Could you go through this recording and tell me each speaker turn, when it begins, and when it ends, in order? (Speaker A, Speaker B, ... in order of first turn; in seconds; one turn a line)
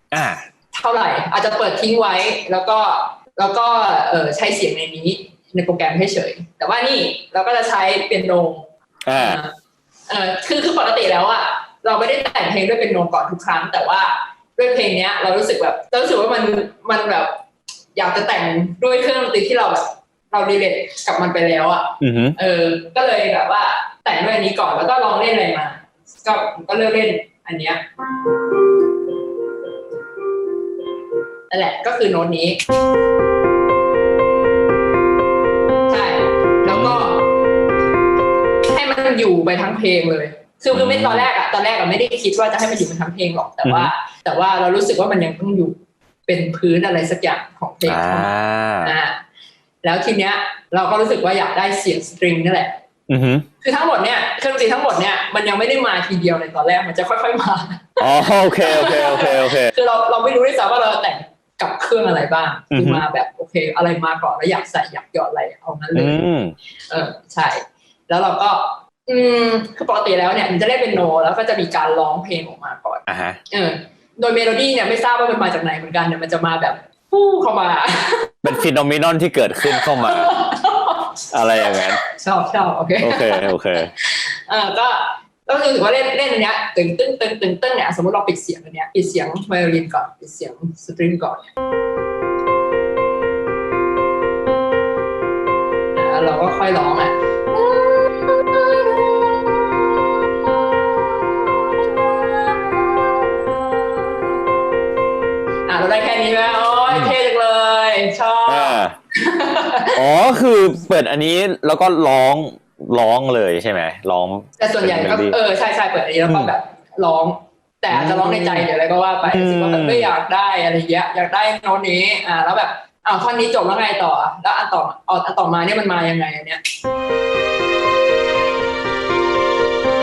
Speaker A: 0.1-0.4
Speaker B: 0.7-9.5
Speaker A: 9.1-9.4
Speaker B: 10.1-17.4
Speaker B: 17.9-27.8
Speaker A: 22.0-22.4
Speaker B: 31.5-32.6
Speaker B: 35.9-37.3
Speaker A: 36.7-37.0
Speaker B: 38.7-48.3
Speaker A: 40.7-41.3
Speaker A: 43.6-43.9
Speaker A: 47.9-48.9
Speaker B: 48.8-49.2
Speaker B: 49.8-52.8
Speaker A: 53.1-53.5
Speaker B: 53.6-66.2
Speaker A: 58.0-59.7
Speaker A: 62.7-63.0
Speaker A: 65.9-66.5
Speaker B: 66.9-78.5
Speaker A: 73.0-73.4
Speaker A: 78.4-80.3
Speaker B: 79.7-91.5
Speaker A: 81.3-82.0
Speaker A: 83.0-83.9
Speaker B: 96.0-104.7
Speaker B: 105.7-110.0
Speaker A: 106.9-107.1
Speaker A: 108.5-108.9
Speaker A: 109.9-115.3
Speaker B: 114.6-126.6
Speaker A: 116.3-116.5
Speaker A: 117.9-118.7
Speaker A: 119.2-120.1